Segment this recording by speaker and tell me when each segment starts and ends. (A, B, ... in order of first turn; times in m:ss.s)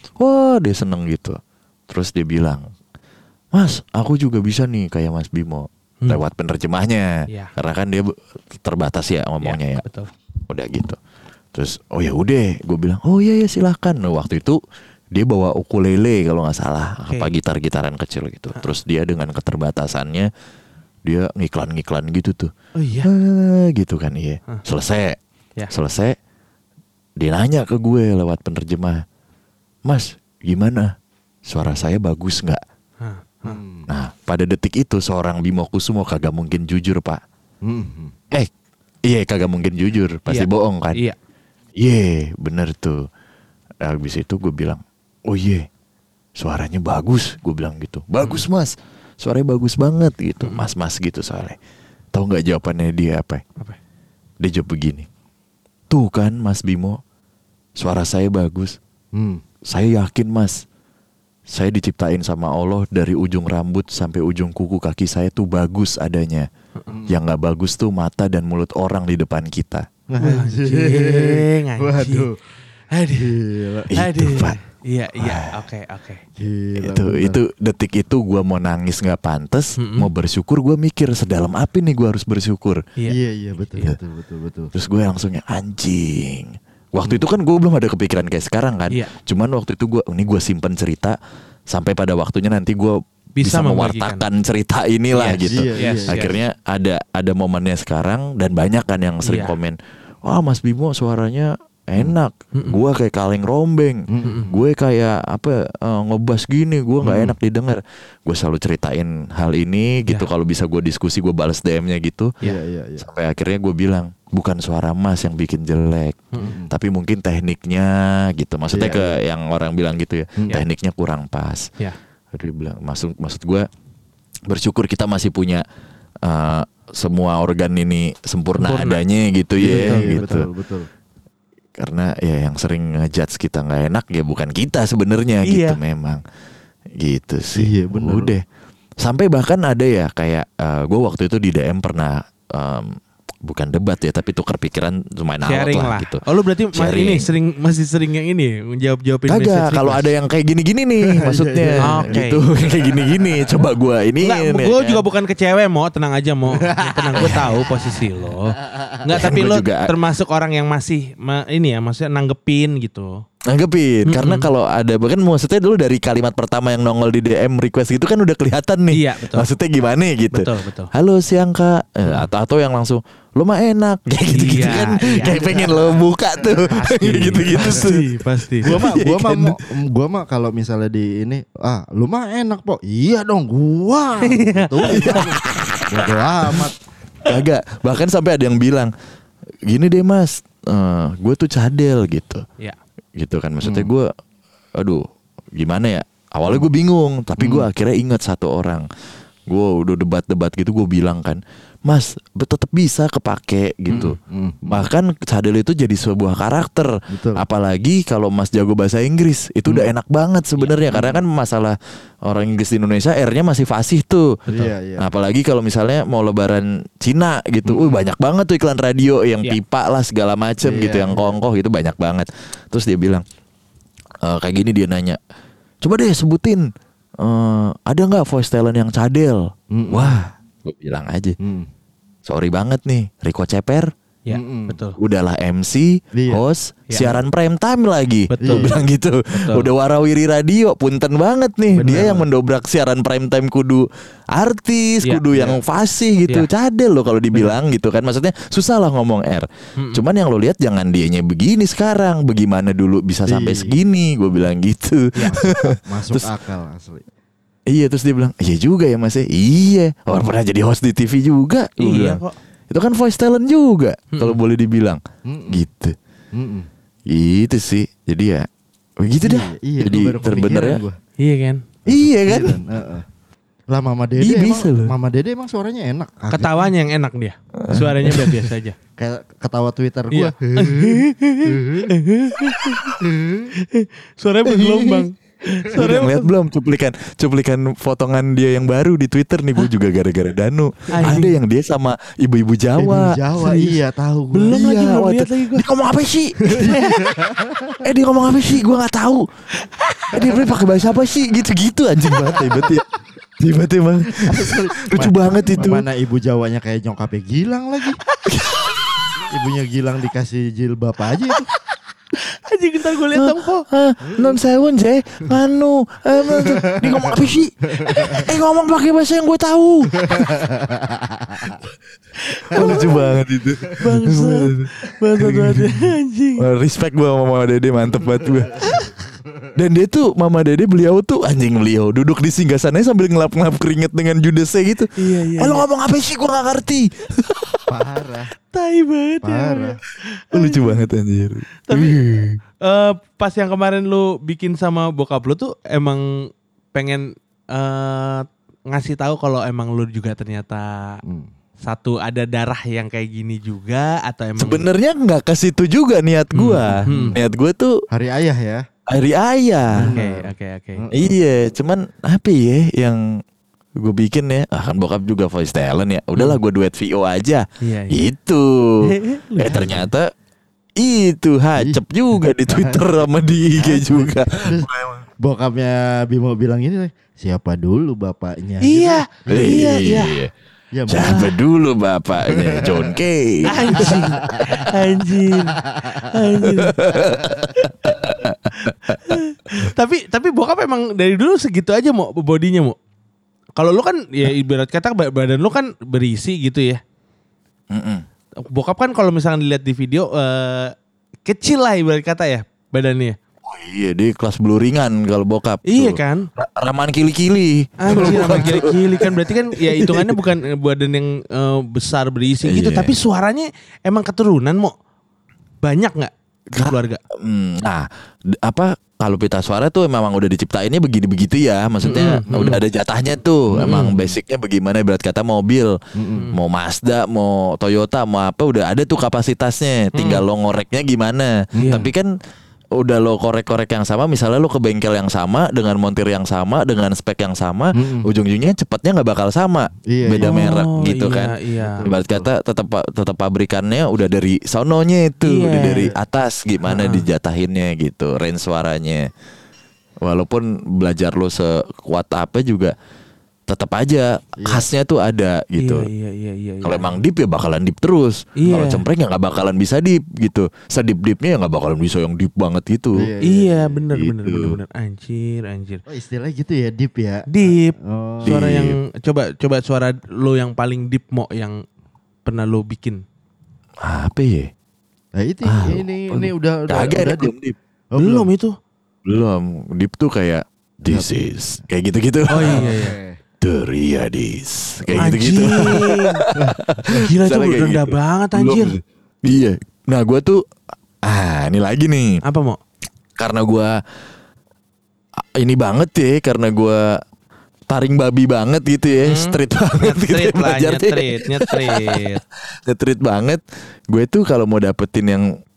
0:00.2-0:01.4 A
0:01.9-0:02.7 A
0:03.5-0:09.8 A
0:07.3-0:07.5 B
0:09.4-0:10.1 B
0:10.5-0:11.0 A
0:11.5-0:14.6 A
0:15.1-0:20.3 A
0:21.1-0:22.5 A
0:22.8-0:23.1 B
0:23.0-0:25.2 A
0:25.7-0:26.1 A
0:27.2-0:29.0 A
0:29.8-0:30.9 A
0:31.4-0:32.6 A
0:33.0-0:33.6 B
0:33.4-0:33.9 C
0:33.9-0:37.2 A
0:37.6-0:38.1 C
0:39.1-0:41.0 A
0:40.3-0:41.2 B
0:41.8-0:43.1 A
0:43.8-0:45.7 A
0:46.4-0:51.6 A
0:50.4-0:50.7 B
0:52.1-0:53.4 A
0:54.4-0:55.1 A
0:55.9-0:57.0 A
0:57.8-0:58.8 A
0:59.1-0:59.4 C
0:59.7-1:00.6 A
1:01.5-1:06.5 A
1:06.9-1:07.2 C
1:07.1-1:09.9 A
1:10.1-1:12.4 C
1:10.2-1:12.3 B
1:12.9-1:13.4 B
1:13.1-1:14.0 C
1:13.9-1:14.6 A
1:13.9-1:16.2 B
1:15.2-1:15.5 A
1:16.4-1:17.4 C
1:16.8-1:22.8 A
1:19.8-1:20.1 B
1:23.1-1:24.7 C
1:24.7-1:31.2 A
1:31.7-1:52.3 A
1:33.4-1:34.2 B
1:35.1-1:36.3 B
1:35.5-1:36.4 C
1:39.2-1:39.5 B
1:44.1-1:44.6 C
1:44.2-1:44.5 B
1:47.0-1:47.4 C
1:52.4-1:53.1 C
1:53.0-2:01.7 A
1:56.4-1:56.7 C
1:58.7-1:59.2 C
2:02.3-2:03.7 A
2:04.5-2:05.6 A
2:06.2-2:10.5 A
2:08.6-2:09.0 B
2:09.6-2:10.9 C
2:09.6-2:10.2 B
2:11.8-2:16.2 A
2:15.4-2:15.8 B
2:17.0-2:18.4 A
2:17.6-2:18.3 C
2:19.0-2:26.2 A
2:25.4-2:30.1 B
2:26.7-2:27.3 A
2:29.3-2:35.0 A
2:31.2-2:32.1 C
2:31.8-2:32.4 B
2:34.2-2:43.2 B
2:36.6-2:37.5 C
2:37.2-2:37.5 A
2:39.1-2:39.9 A
2:43.5-2:59.6 A
2:44.1-2:44.5 B
2:48.9-2:49.5 B
2:50.3-2:50.9 B
2:54.4-2:55.3 B
2:55.2-2:56.7 C
2:56.7-2:58.8 B
2:57.6-2:57.9 C
2:58.6-3:06.8 C
3:04.3-3:05.3 B
3:04.9-3:06.7 A
3:07.2-3:08.9 A
3:09.7-3:12.4 A
3:13.2-3:14.1 A
3:13.6-3:13.9 C
3:14.8-3:15.0 A
3:15.6-3:18.9 A
3:17.4-3:17.7 C
3:19.5-3:24.2 A
3:23.9-3:24.9 C
3:24.7-3:31.7 A
3:27.1-3:27.4 C
3:30.9-3:31.2 C
3:32.3-3:34.4 A
3:34.5-3:34.7 B
3:34.5-3:35.1 C
3:35.0-3:43.2 A
3:37.6-3:38.1 C
3:40.6-3:41.4 C
3:44.2-3:45.2 A
3:45.8-3:46.7 A
3:47.2-3:51.4 A
3:49.7-3:50.3 C
3:51.4-3:51.7 C
3:52.3-3:53.9 A
3:54.3-3:55.0 B
3:54.3-3:54.8 C
3:55.0-4:16.3 A
3:56.1-3:56.4 C
3:56.9-3:57.2 B
3:58.3-3:58.8 B
3:58.4-3:58.8 C
3:59.3-3:59.7 B
4:01.7-4:02.3 B
4:05.0-4:05.6 B
4:09.8-4:10.0 B
4:13.3-4:13.8 C
4:15.2-4:15.5 B
4:15.3-4:17.1 C
4:17.7-4:26.0 A
4:21.8-4:22.4 B
4:24.1-4:24.4 B
4:25.3-4:25.7 C
4:26.3-4:26.7 C
4:27.1-4:28.5 A
4:29.0-4:30.8 A
4:29.2-4:31.0 C
4:31.2-4:31.7 B
4:31.9-4:32.6 A
4:31.9-4:33.1 C
4:33.7-4:36.7 C
4:34.2-4:34.9 A
4:36.3-4:38.8 B
4:37.6-4:38.4 A
4:39.0-4:41.9 C
4:40.1-4:43.0 B
4:43.0-4:43.5 C
4:43.6-4:46.3 B
4:44.5-4:45.1 A
4:45.7-4:53.2 A
4:50.9-4:51.3 B
4:52.8-4:54.6 C
4:53.4-4:53.7 B
4:54.3-4:55.7 B
4:54.5-4:57.0 A
4:56.5-4:57.8 C
4:56.6-4:57.0 B
4:57.8-4:59.3 A
4:59.6-5:00.2 B
5:00.1-5:02.9 A
5:03.4-5:05.9 A
5:04.2-5:08.0 C
5:08.3-5:08.6 A
5:09.3-5:11.5 C
5:11.7-5:13.6 B
5:13.1-5:20.3 A
5:14.1-5:14.4 C
5:16.2-5:18.3 C
5:17.8-5:18.3 B
5:20.0-5:21.6 C
5:22.2-5:23.1 B
5:22.5-5:25.8 A
5:22.5-5:23.0 C
5:23.8-5:26.4 B
5:26.4-5:28.7 A
5:28.2-5:29.5 C
5:28.6-5:28.9 B
5:29.6-5:37.7 A
5:35.0-5:35.6 B
5:37.7-5:38.3 C
5:38.5-5:40.9 B
5:39.2-5:39.8 C
5:40.3-5:42.4 A
5:41.7-5:42.0 B
5:42.6-5:46.1 B
5:46.7-5:51.0 B
5:51.0-5:51.3 C
5:51.6-5:54.7 B
5:54.4-5:57.7 A
5:56.4-5:57.1 B
5:56.9-5:57.2 C
5:57.9-5:58.6 C
5:58.9-6:00.0 A
5:59.7-6:01.2 C
5:59.9-6:00.9 B
6:01.0-6:03.0 A
6:03.8-6:08.9 A
6:07.6-6:08.0 B
6:08.8-6:09.9 B
6:09.4-6:10.1 A
6:10.8-6:15.1 A
6:12.5-6:12.8 C
6:13.6-6:14.0 B
6:13.9-6:20.0 C
6:18.6-6:20.1 B
6:19.3-6:20.3 A
6:20.7-6:21.3 C
6:20.9-6:24.4 A
6:20.9-6:21.3 B
6:22.2-6:23.0 C
6:23.5-6:26.9 B
6:23.8-6:24.7 C
6:25.7-6:26.3 C
6:26.4-6:29.0 A
6:27.5-6:32.8 B
6:33.6-6:36.8 B
6:37.7-6:38.0 A
6:38.4-6:40.7 B
6:41.3-6:43.2 B
6:43.4-6:49.1 A
6:45.7-6:46.3 B
6:47.8-6:54.7 B
6:47.9-6:48.6 C
6:49.7-6:50.2 A
6:52.4-6:52.9 A
6:55.6-6:57.0 B
6:56.6-7:05.8 A
7:01.8-7:02.6 C
7:01.9-7:02.6 B
7:03.5-7:04.2 C
7:03.6-7:03.9 B
7:06.0-7:06.3 C
7:06.3-7:12.1 A
7:09.9-7:10.2 B
7:11.6-7:11.9 B
7:11.6-7:11.9 C
7:12.8-7:29.1 A
7:17.8-7:18.1 C
7:19.9-7:20.6 C
7:20.2-7:21.8 B
7:21.6-7:22.3 C
7:25.2-7:25.9 B
7:25.6-7:26.0 C
7:26.7-7:27.0 B
7:30.0-7:32.7 A
7:33.5-7:35.9 A
7:34.4-7:34.7 C
7:35.6-7:37.0 B
7:36.6-7:43.1 A
7:38.4-7:38.8 B
7:43.0-7:43.8 C
7:43.2-7:45.8 B
7:44.0-7:44.6 A
7:45.9-7:48.4 C
7:47.3-7:51.6 B
7:48.2-7:48.8 A
7:52.2-7:53.0 B
7:53.8-7:54.5 A
7:55.2-7:57.3 C
7:55.4-7:57.6 A
7:57.9-7:58.3 C
7:58.0-7:58.5 B
7:59.1-8:02.7 A
8:00.9-8:01.2 C
8:02.3-8:03.0 B
8:02.4-8:03.2 C
8:03.4-8:10.4 A
8:05.0-8:06.2 B
8:06.4-8:06.9 C
8:06.9-8:08.8 B
8:11.0-8:12.2 A
8:12.2-8:12.6 B
8:13.2-8:13.7 A
8:15.4-8:17.0 A
8:17.7-8:25.3 A
8:19.0-8:22.2 B